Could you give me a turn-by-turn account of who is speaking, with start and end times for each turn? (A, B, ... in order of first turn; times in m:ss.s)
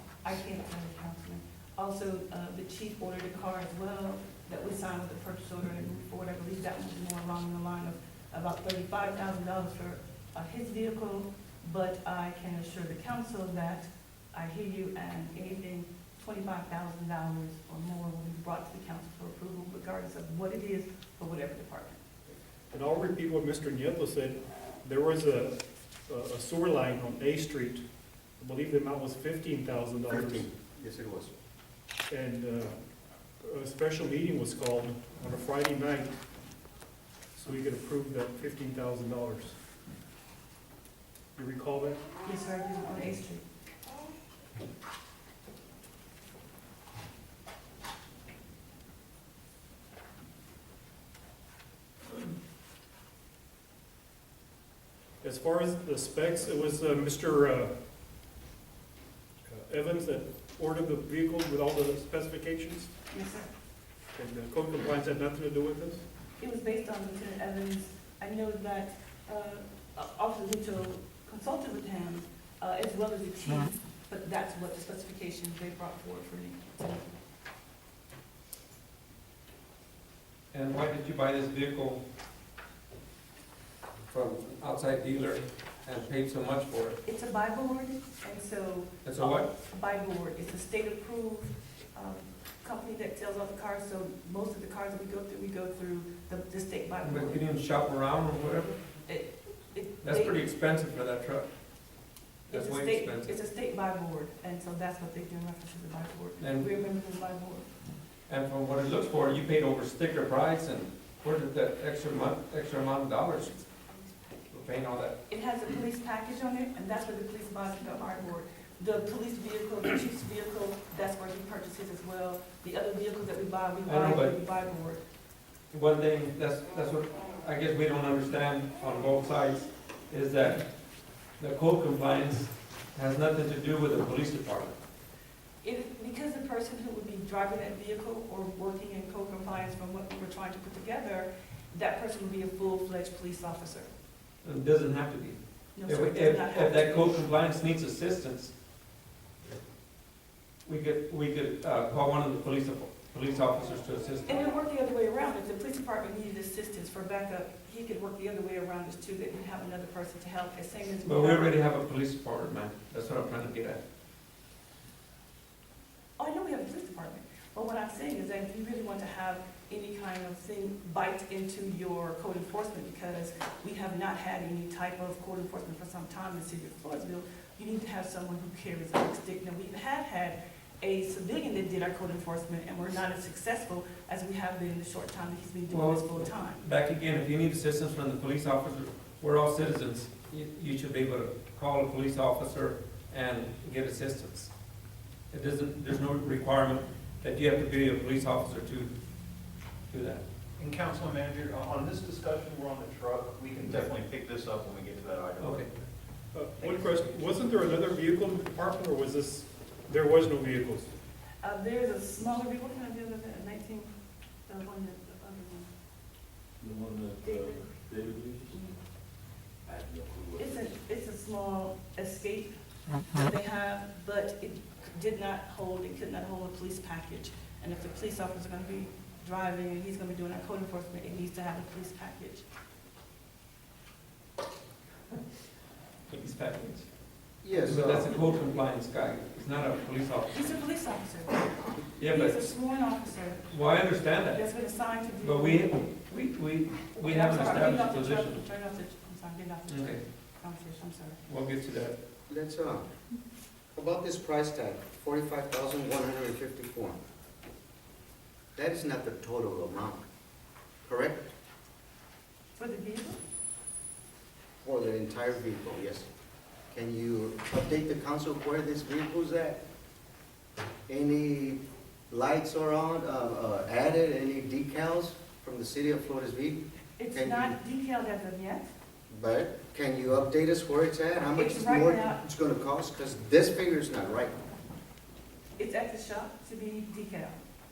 0:00.2-0:22.0 A
0:22.7-0:25.5 B
0:26.1-0:27.8 B
0:28.4-0:30.5 B
0:30.1-0:31.3 C
0:32.1-0:32.7 B
0:33.5-0:36.1 B
0:37.4-0:39.5 B
0:41.4-0:42.0 B
0:42.2-0:43.4 A
0:55.2-0:57.7 B
0:59.5-1:02.9 B
1:03.1-1:03.5 A
1:04.2-1:06.0 B
1:06.4-1:17.1 A
1:20.5-1:22.0 D
1:24.1-1:27.0 D
1:27.0-1:37.4 A
1:29.0-1:29.5 D
1:37.0-1:38.8 D
1:39.0-1:40.4 A
1:40.0-1:41.5 D
1:42.5-1:43.3 D
1:42.5-1:47.7 A
1:46.4-1:46.7 D
1:48.3-1:53.6 D
1:53.6-1:54.2 A
1:54.5-1:55.2 D
1:55.3-2:05.0 A
2:03.8-2:04.4 D
2:05.7-2:10.7 D
2:11.4-2:14.8 D
2:15.6-2:23.9 A
2:24.4-2:28.5 D
2:25.8-2:27.2 A
2:30.6-2:34.3 D
2:34.2-2:41.6 A
2:41.0-2:43.8 D
2:46.2-3:06.6 A
3:05.7-3:14.5 D
3:15.3-3:18.9 D
3:19.9-3:20.2 D
3:20.6-3:25.7 E
3:25.4-3:25.7 D
3:26.3-3:30.9 B
3:31.4-3:33.9 A
3:34.4-3:35.7 A
3:36.6-3:38.5 F
3:37.2-3:37.6 A
3:38.5-3:38.8 A
3:39.6-3:40.4 F
3:40.4-3:42.5 A
3:43.1-3:52.4 A
3:56.1-3:56.8 D
3:57.4-3:58.2 C
3:57.6-4:00.5 D
4:00.3-4:01.5 A
4:02.0-4:02.5 D
4:02.0-4:06.0 A
4:03.5-4:04.4 D
4:05.2-4:08.4 D
4:07.0-4:11.2 A
4:09.7-4:10.0 D
4:11.3-4:12.0 D
4:12.3-4:12.8 C
4:13.7-4:17.0 C
4:18.6-4:20.0 C
4:20.8-4:21.3 C
4:22.6-4:23.2 A
4:24.6-4:26.1 C
4:26.7-4:29.6 C
4:30.9-4:31.6 C
4:32.1-4:37.6 C
4:37.0-4:38.7 A
4:39.1-4:44.3 C
4:41.3-4:42.2 A
4:45.6-4:47.4 A